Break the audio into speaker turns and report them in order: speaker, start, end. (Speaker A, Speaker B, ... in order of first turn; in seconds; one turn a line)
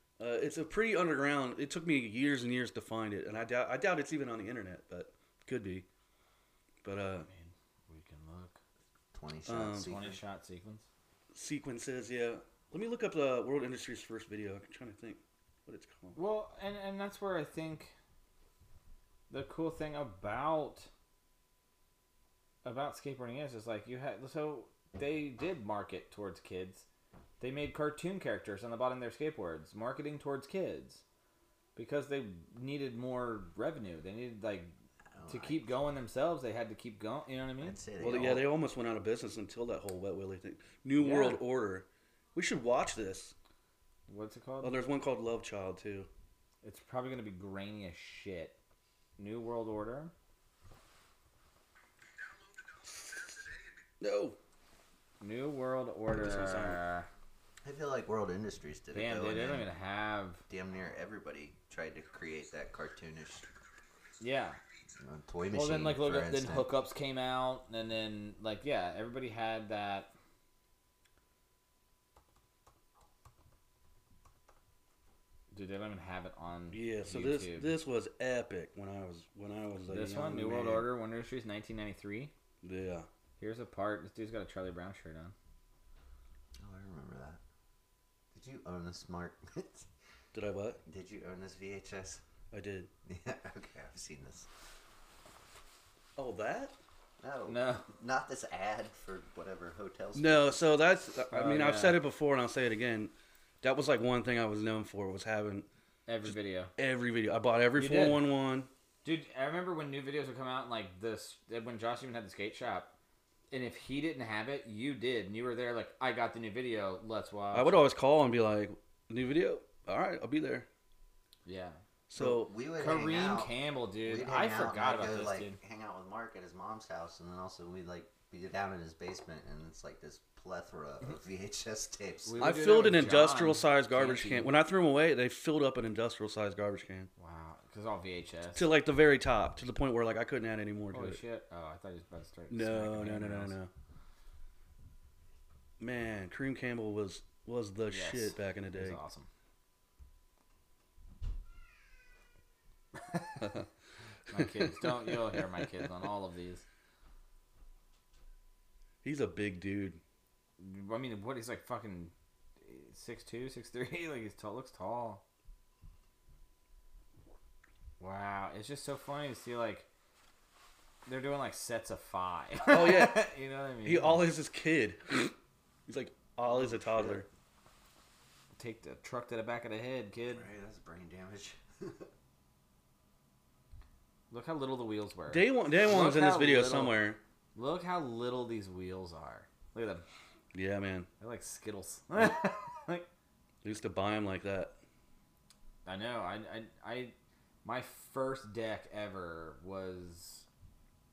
Speaker A: 0.2-5.9
Speaker A: 6.8-7.3
Speaker B: 7.3-8.6
Speaker C: 9.1-10.2
Speaker A: 9.5-10.0
Speaker B: 9.8-10.9
Speaker A: 11.3-16.2
Speaker B: 16.1-17.9
Speaker B: 19.3-20.9
Speaker B: 22.6-26.9
Speaker B: 27.4-31.0
Speaker B: 31.8-34.7
Speaker C: 35.2-35.7
Speaker B: 35.3-37.8
Speaker C: 37.6-38.5
Speaker A: 38.0-43.3
Speaker B: 41.0-41.4
Speaker B: 44.1-44.8
Speaker A: 44.6-46.1
Speaker B: 46.6-48.6
Speaker B: 49.2-50.1
Speaker A: 54.0-54.4
Speaker B: 55.2-57.1
Speaker A: 56.1-56.8
Speaker C: 57.6-59.7
Speaker B: 58.9-60.4
Speaker C: 60.5-63.5
Speaker B: 64.2-64.6
Speaker C: 65.0-66.7
Speaker B: 65.5-70.1
Speaker B: 75.5-77.7
Speaker A: 76.7-80.9
Speaker B: 79.9-82.3
Speaker A: 82.6-83.1
Speaker B: 83.4-85.3
Speaker C: 86.6-87.4
Speaker C: 88.3-89.9
Speaker A: 90.3-90.8
Speaker C: 90.8-92.2
Speaker A: 92.5-92.9
Speaker C: 93.0-94.5
Speaker A: 96.2-96.8
Speaker C: 97.2-100.6
Speaker B: 97.5-97.9
Speaker A: 100.2-105.7
Speaker B: 101.3-102.0
Speaker B: 106.1-106.7
Speaker A: 106.3-108.7
Speaker B: 107.8-108.2
Speaker B: 109.0-112.9
Speaker B: 113.5-117.9
Speaker A: 117.5-120.7
Speaker B: 121.5-121.8
Speaker A: 122.1-122.5
Speaker C: 122.2-132.5
Speaker B: 122.8-125.6
Speaker B: 132.2-134.5
Speaker A: 132.4-137.1
Speaker B: 137.2-138.7
Speaker A: 138.6-141.2
Speaker B: 140.9-143.6
Speaker A: 142.5-143.7
Speaker A: 145.8-149.0
Speaker B: 147.9-149.3
Speaker B: 153.0-153.5
Speaker B: 154.3-156.7
Speaker A: 159.0-160.0
Speaker B: 160.6-165.2
Speaker B: 168.0-169.9
Speaker B: 171.1-174.2
Speaker A: 172.7-173.3
Speaker A: 173.8-175.3
Speaker A: 175.9-177.3
Speaker C: 176.5-177.2
Speaker B: 178.6-180.5
Speaker C: 180.3-182.1
Speaker B: 184.3-187.0
Speaker A: 185.3-187.2
Speaker B: 187.6-190.1
Speaker A: 190.5-191.1
Speaker B: 191.2-193.1
Speaker A: 193.6-194.7
Speaker B: 195.9-200.5